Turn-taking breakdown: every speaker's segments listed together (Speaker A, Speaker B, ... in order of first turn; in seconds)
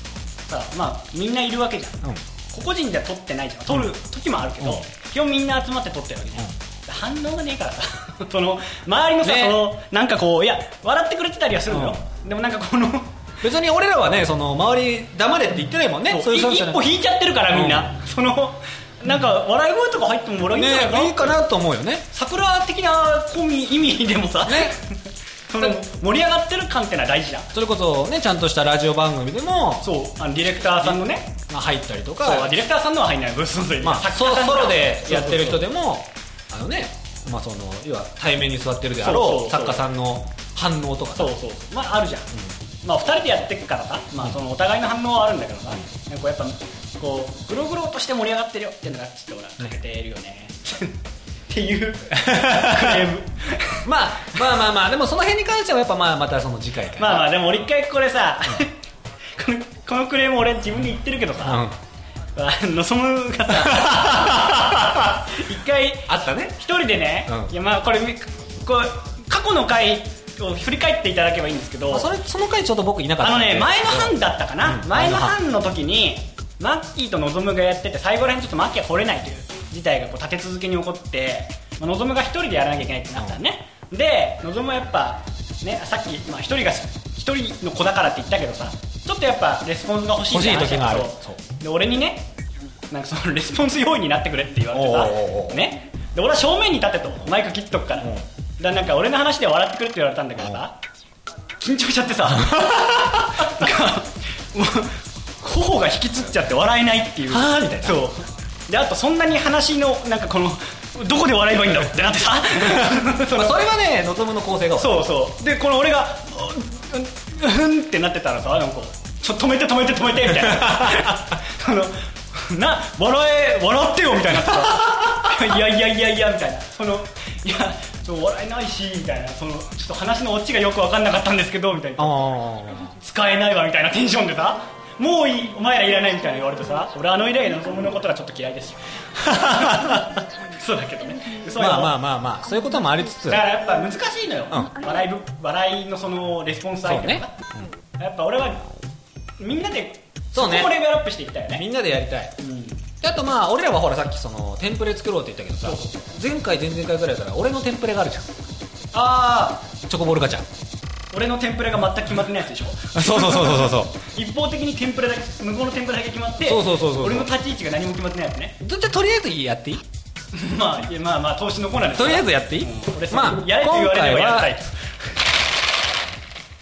Speaker A: 0.5-13.1, 16.1-21.4, 22.1-25.0, 25.5-27.5, 29.8-31.3, 32.2-35.6, 39.0-39.8, 41.1-42.3, 42.8-51.0, 51.5-54.4, 57.0-58.8, 59.4-61.6, 62.4-72.1, 73.2-92.3, 92.9-100.8, 101.6-113.6, 114.8-132.3, 132.8-141.9, 143.3-147.3, 148.0-148.7, 149.4-151.6, 152.4-152.8, 155.6-156.0, 158.9-159.7, 161.1-168.6, 170.3-174.9
Speaker B: 9.2-9.6, 11.7-12.0, 13.4-16.9, 17.5-17.9, 20.5-22.1, 24.4-24.7, 27.5-29.9, 30.7-32.6, 33.8-41.3, 52.2-53.1, 53.8-57.3, 61.4-61.8, 63.6-65.0, 66.1-66.6, 67.3-67.5, 71.9-75.3, 90.3-91.4, 94.7-95.6, 102.4-103.5, 107.3-108.0, 112.6-115.0, 120.6-121.2, 132.0-132.9, 139.2-140.1, 141.6-143.5, 146.8-147.2, 150.3-150.7, 151.5-152.3, 153.0-158.3, 159.9-160.4, 162.9-163.9, 166.4-167.3, 168.6-169.8, 171.9-174.5